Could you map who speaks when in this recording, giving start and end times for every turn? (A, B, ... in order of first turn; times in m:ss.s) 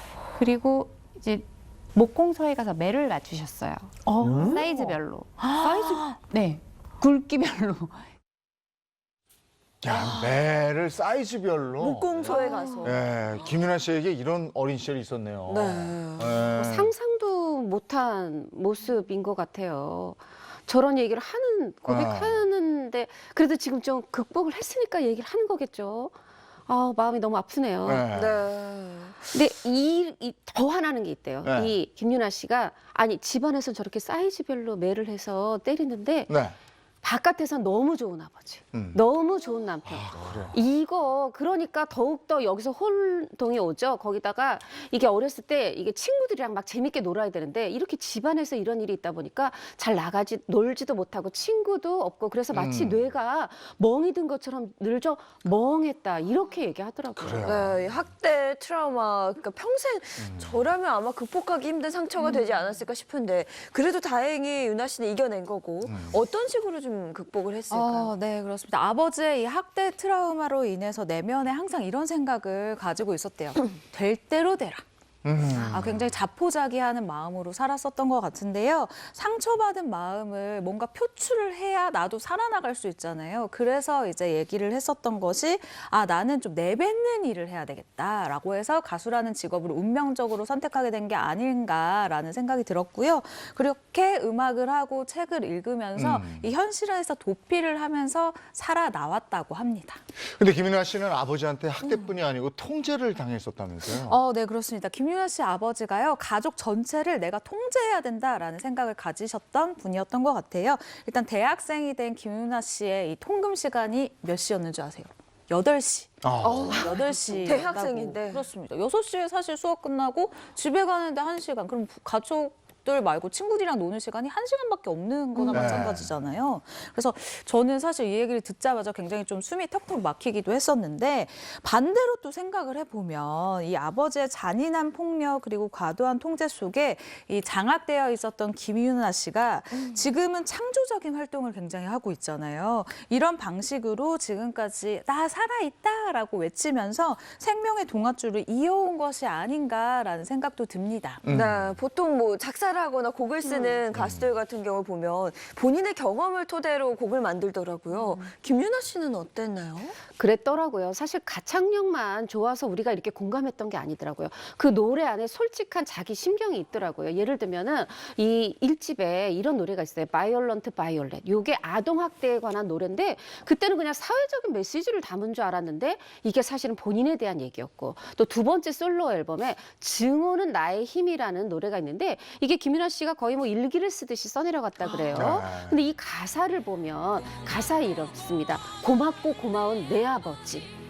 0:00.4-0:08.1 A
0:04.2-0:06.2 B
0:09.8-0:16.9 C
0:09.9-0:10.4 D
0:11.8-0:13.5 D
0:15.5-0:16.4 D
0:16.6-0:26.1 E
0:21.9-0:22.4 C
0:26.7-0:28.1 E
0:27.8-0:28.5 C
0:28.1-0:29.3 D
0:29.3-0:36.3 E
0:31.4-0:31.7 C
0:36.3-0:36.6 C
0:37.0-0:57.6 E
0:38.7-0:39.0 C
0:39.9-0:40.6 C
0:52.5-0:53.0 C
0:57.2-0:57.8 C
0:57.4-1:08.1 D
1:00.2-1:00.7 C
1:05.9-1:06.2 C
1:07.7-1:14.8 B
1:15.2-1:16.1 C
1:15.6-1:15.8 D
1:15.6-1:40.0 B
1:36.0-1:36.5 C
1:40.2-1:44.2 C
1:43.9-2:31.2 B
1:56.2-1:56.9 C
1:56.4-1:58.5 D
2:05.4-2:05.8 D
2:05.5-2:06.2 C
2:19.7-2:20.1 D
2:31.2-2:31.8 C
2:31.3-2:40.0 D
2:33.4-2:33.8 E
2:33.9-2:34.3 C
2:37.9-2:38.3 E
2:40.1-3:10.7 E
3:05.1-3:05.8 C